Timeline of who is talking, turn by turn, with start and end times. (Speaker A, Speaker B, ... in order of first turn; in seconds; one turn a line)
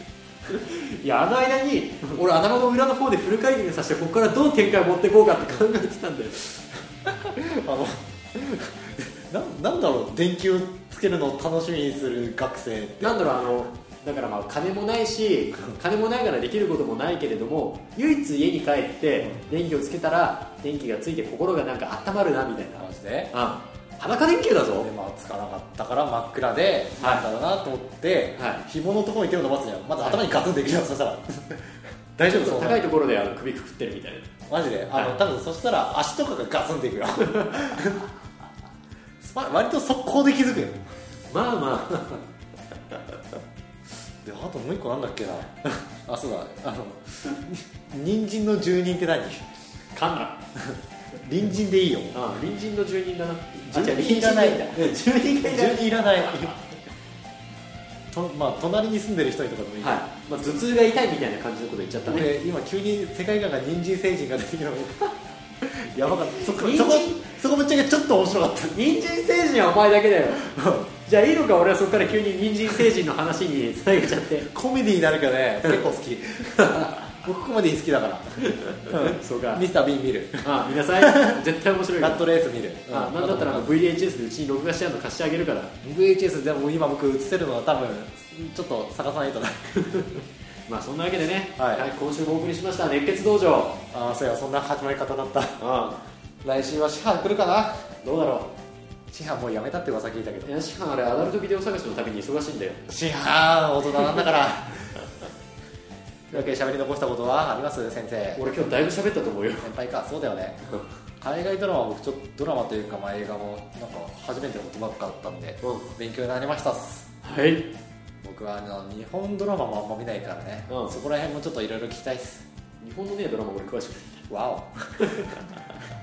Speaker A: 0.5-6.5
Speaker B: 7.1-13.3
Speaker A: 13.0-24.9
Speaker B: 22.8-23.3
Speaker B: 24.7-32.9
Speaker A: 27.0-27.3
Speaker A: 28.4-28.6
Speaker A: 32.3-34.3
Speaker B: 34.5-38.1
Speaker A: 37.2-38.0
Speaker B: 39.2-40.9
Speaker A: 41.3-42.2
Speaker B: 44.2-49.5
Speaker A: 49.9-50.4
Speaker B: 50.6-52.2
Speaker A: 52.1-56.6
Speaker B: 53.7-56.5
Speaker B: 58.1-60.6
Speaker A: 59.8-62.3
Speaker B: 62.1-69.0
Speaker A: 66.4-67.2
Speaker A: 68.7-70.5
Speaker B: 70.4-70.9
Speaker A: 71.0-74.5
Speaker B: 74.5-81.4
Speaker A: 76.6-77.0
Speaker A: 78.4-79.7
Speaker A: 80.4-82.3
Speaker B: 82.0-83.7
Speaker A: 82.9-85.8
Speaker B: 85.8-89.7
Speaker A: 89.8-93.8
Speaker B: 91.6-91.9
Speaker B: 93.9-95.6
Speaker A: 95.6-96.0
Speaker B: 96.4-97.9
Speaker A: 98.0-98.5
Speaker B: 99.1-100.5
Speaker A: 100.5-102.8
Speaker B: 102.9-105.1
Speaker B: 106.3-109.0
Speaker A: 108.4-109.7
Speaker B: 109.6-110.6
Speaker B: 111.2-117.1
Speaker A: 115.6-115.9
Speaker A: 117.2-117.7
Speaker B: 118.2-122.5
Speaker A: 120.7-121.0
Speaker A: 122.8-124.3
Speaker B: 124.3-125.4
Speaker A: 125.0-125.5